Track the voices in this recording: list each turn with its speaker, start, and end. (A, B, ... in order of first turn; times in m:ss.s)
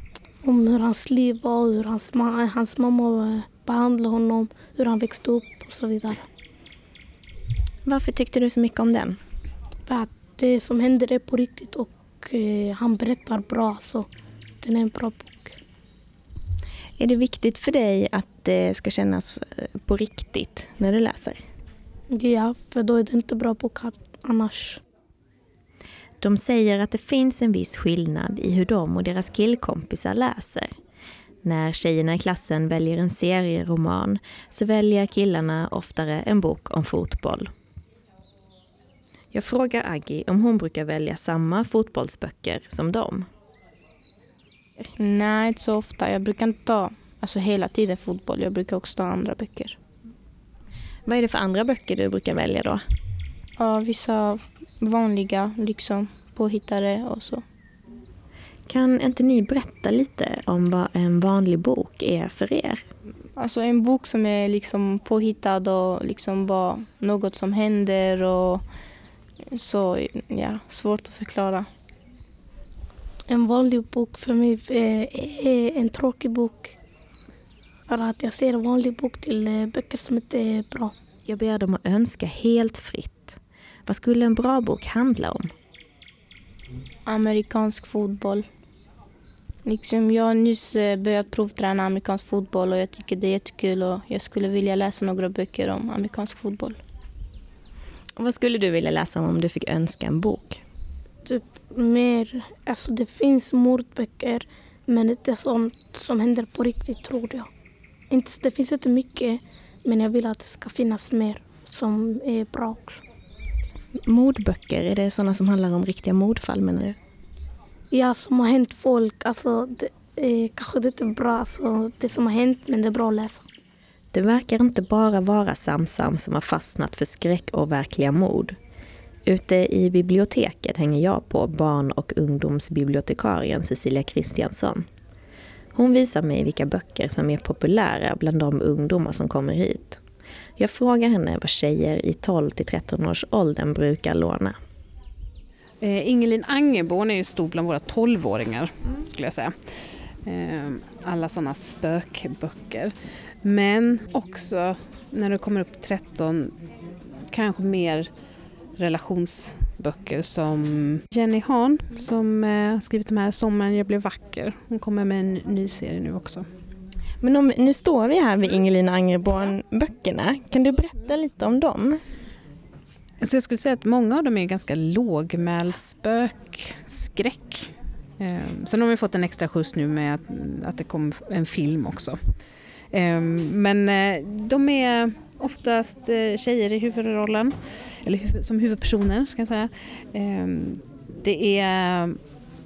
0:00.4-0:06.2 A
0:07.8-0:09.2 B
0:09.9-0:14.1 A
0:14.6-0:15.6 A
0:17.0-0:21.4 B
0:22.1-0:24.8 A
0:26.2-0:30.7 B
0:31.4-0:37.5 B
0:39.3-0:43.3 B
0:45.0-0:49.8 C
0:51.0-0:52.8 B
0:53.6-0:57.4 C
0:58.7-1:02.8 B
1:03.4-1:08.7 C
1:09.5-1:11.7 C
1:13.3-1:16.7 A
1:17.9-1:20.9 A
1:21.2-1:25.5 B
1:27.0-1:28.4 C
1:29.6-1:36.8 C
1:38.2-1:40.6 B
1:41.2-1:47.5 A
1:48.1-1:53.0 A
1:54.0-1:57.0 B
1:57.9-2:03.4 A
2:04.1-2:08.6 B
2:09.2-2:14.8 B
2:15.7-2:20.0 B
2:20.6-2:24.6 B
2:25.8-2:36.5 D
2:37.3-2:38.1 D
2:38.8-2:46.5 D
2:47.2-2:52.0 B
2:53.2-3:02.2 D
3:02.9-3:12.2 D